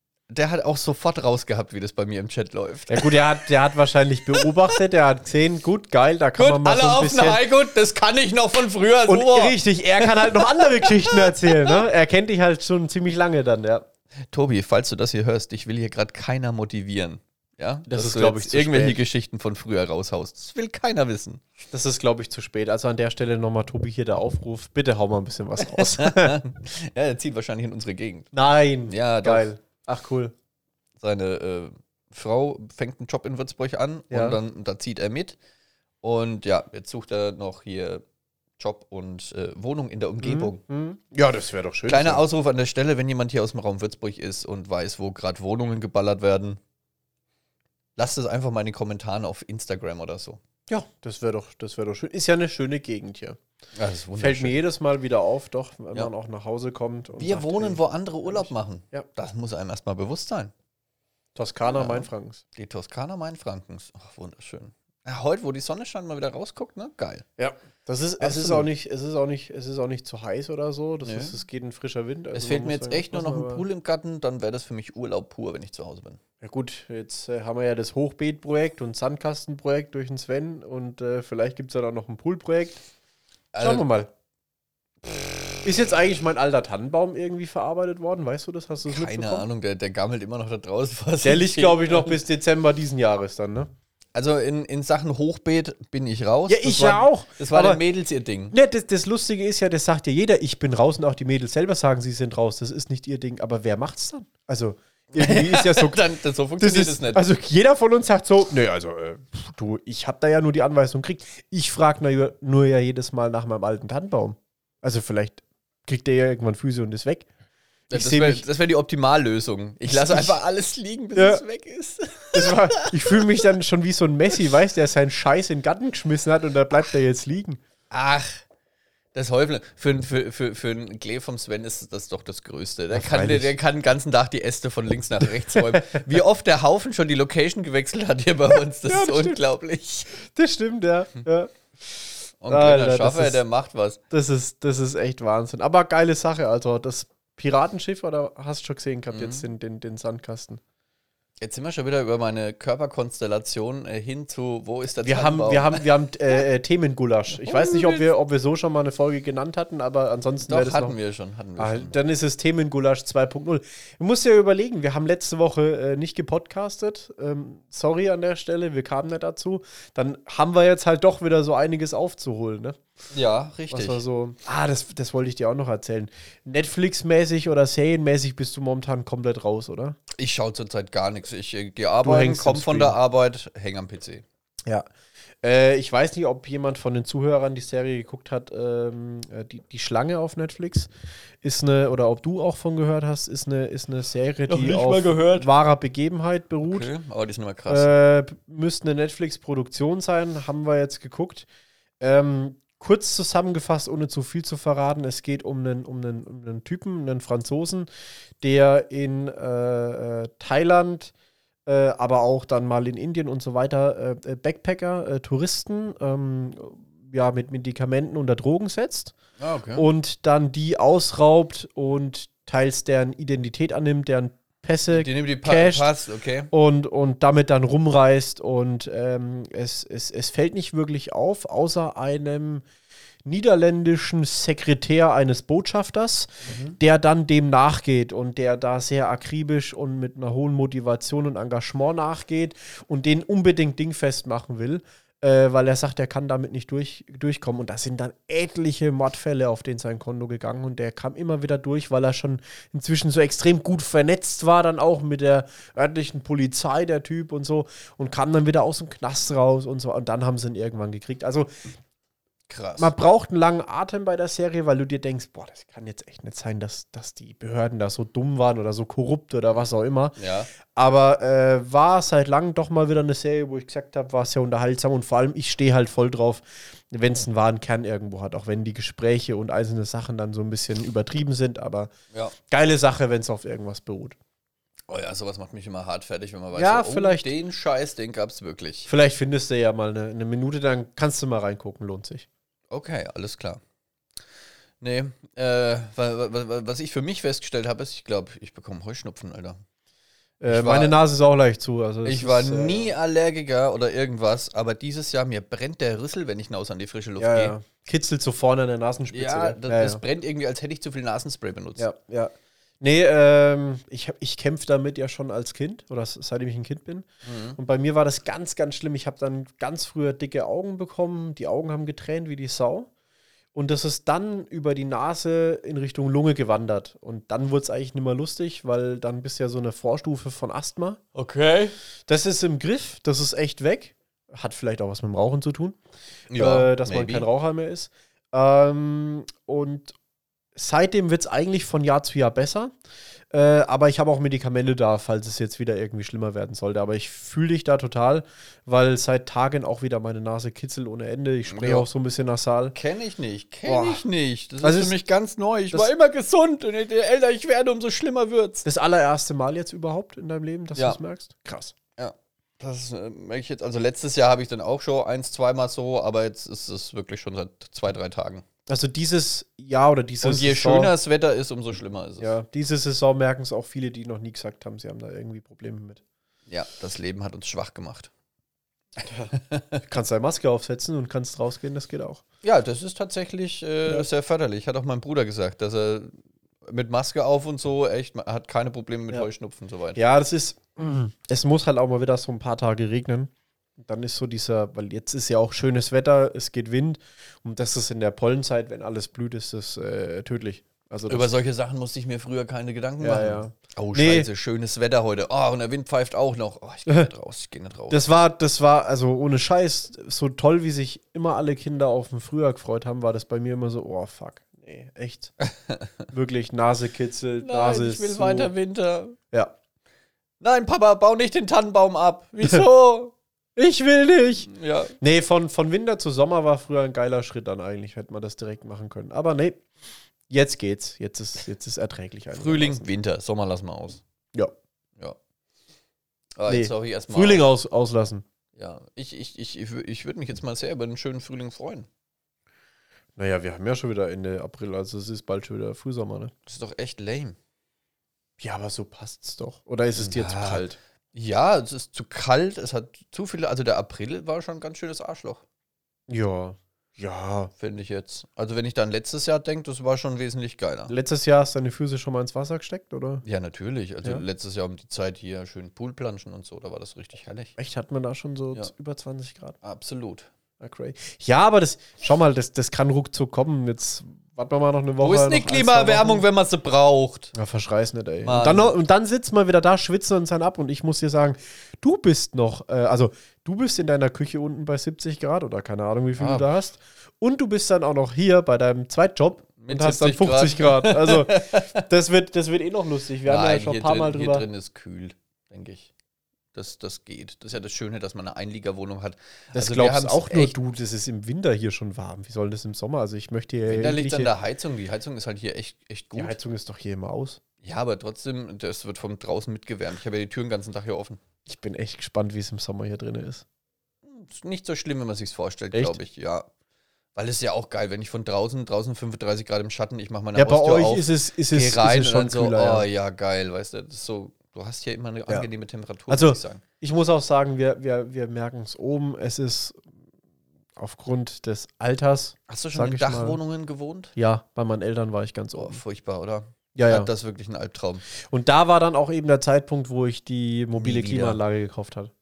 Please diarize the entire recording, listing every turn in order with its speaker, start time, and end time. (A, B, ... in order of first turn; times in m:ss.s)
0:00.3-0:03.2 A
0:02.9-0:07.4 B
0:04.4-0:04.7 A
0:06.4-0:11.8 A
0:09.1-0:13.9 B
0:14.3-0:21.4 A
0:17.9-0:19.0 B
0:21.7-0:26.4 B
0:25.6-0:28.3 A
0:28.3-0:30.3 B
0:28.9-0:29.5 A
0:31.0-0:35.4 A
0:34.1-0:34.4 B
0:36.0-0:38.0 A
0:38.6-0:40.6 A
0:40.2-0:42.2 B
0:41.9-0:46.6 A
0:48.0-0:50.4 A
0:50.7-0:53.4 B
0:53.8-0:54.6 A
0:54.2-0:59.1 B
0:57.2-1:00.5 A
1:01.4-1:02.4 B
1:01.7-1:07.2 A
1:07.4-1:13.6 B
1:08.2-1:08.7 A
1:11.0-1:11.4 A
1:12.3-1:16.2 A
1:16.4-1:22.8 B
1:23.5-1:23.9 A
1:23.6-1:24.1 B
1:25.0-1:25.5 A
1:25.6-1:29.5 B
1:28.9-1:32.2 A
1:31.2-1:33.7 B
1:34.2-1:38.6 A
1:36.5-1:37.8 B
1:38.5-1:46.0 B
1:45.1-1:47.2 A
1:46.6-1:57.3 B
1:57.9-1:58.4 B
1:57.9-2:03.4 A
1:59.9-2:00.4 B
2:01.2-2:01.4 B
2:02.3-2:07.6 B
2:07.9-2:08.4 A
2:09.1-2:20.2 A
2:12.9-2:13.5 B
2:15.2-2:16.0 B
2:18.9-2:19.4 B
2:20.2-2:21.5 B
2:22.4-2:24.0 A
2:22.5-2:23.4 B
2:24.1-2:30.6 B
2:29.1-2:29.5 A
2:31.4-2:35.9 A
2:35.0-2:41.0 B
2:37.4-2:38.1 A
2:40.5-2:42.0 A
2:41.6-2:52.8 B
2:53.1-2:54.0 A
2:53.7-3:00.0 B
3:00.2-3:04.2 A
3:02.0-3:03.0 B
3:05.4-3:10.9 B
3:11.4-3:16.9 B
3:14.5-3:15.5 A
3:16.7-3:17.9 A
3:17.7-3:21.5 B
3:22.0-3:27.9 B
3:28.4-3:31.1 B
3:31.7-3:39.1 B
3:39.4-3:39.9 A
3:39.8-3:45.9 B
3:44.9-3:46.5 A
3:46.5-3:52.6 B
3:53.2-4:21.5 B
3:56.5-3:56.8 A
4:22.5-4:22.9 A
4:22.8-4:41.9 B
4:30.2-4:30.5 A
4:42.5-4:44.2 B
4:44.9-4:48.9 A
4:46.5-4:47.3 B
4:48.9-4:52.3 B
4:52.7-4:53.6 A
4:54.8-4:59.6 A
5:00.4-5:02.9 B
5:00.5-5:01.0 A
5:02.0-5:07.6 A
5:07.2-5:10.0 B
5:09.1-5:11.9 A
5:11.8-5:22.9 B
5:17.2-5:17.6 A
5:23.5-5:31.0 B
5:31.2-5:31.8 A
5:32.1-5:35.8 B
5:36.3-5:37.3 A
5:36.3-5:40.0 B
5:40.5-5:42.7 B
5:43.3-5:52.8 B
5:51.5-5:51.9 A
5:52.7-5:58.6 A
5:53.7-5:54.0 B
5:54.6-5:55.0 B
5:58.6-6:01.8 B
6:02.0-6:08.4 A
6:08.7-6:10.9 B
6:10.2-6:12.3 A
6:12.2-6:16.0 B
6:16.5-6:18.1 A
6:19.3-6:19.8 A
6:19.8-6:22.2 B
6:22.4-6:30.0 A
6:30.0-6:41.3 B
6:41.1-6:48.0 A
6:43.0-6:44.3 B
6:47.9-6:55.3 B
6:55.4-6:55.8 A
6:56.1-6:58.5 B
6:57.4-6:59.2 A
7:00.4-7:03.1 A
7:03.6-7:04.5 B
7:04.5-7:04.9 A
7:05.0-7:09.6 B
7:10.3-7:12.9 B
7:12.3-7:14.0 A
7:16.4-7:17.5 A
7:16.5-7:18.2 B
7:18.6-7:21.9 A
7:23.2-7:26.3 B
7:26.5-7:27.4 A
7:28.4-7:30.8 B
7:30.0-7:35.4 A
7:36.1-7:37.5 B
7:37.6-7:40.9 A
7:40.9-7:43.2 B
7:43.2-7:47.5 A
7:47.6-7:49.6 B
7:49.6-7:50.3 A
7:50.6-7:56.2 B
7:55.0-7:57.3 A
7:57.3-8:14.5 B
7:58.2-7:58.8 A
8:06.2-8:06.5 A
8:09.6-8:11.8 A
8:13.2-8:15.9 A
8:16.5-8:20.5 A
8:19.5-8:24.3 B
8:23.7-8:26.4 A
8:26.2-8:27.4 B
8:27.6-8:31.2 A
8:31.5-8:33.4 B
8:34.0-8:36.5 A
8:35.7-8:36.0 B
8:37.2-8:46.6 A
8:40.4-8:42.9 B
8:46.1-8:49.9 B
8:50.8-8:53.4 B
8:52.5-8:54.2 A
8:54.2-8:55.8 B
8:55.5-8:58.0 A
8:56.8-8:57.1 B
8:58.2-9:02.1 B
9:00.8-9:01.4 A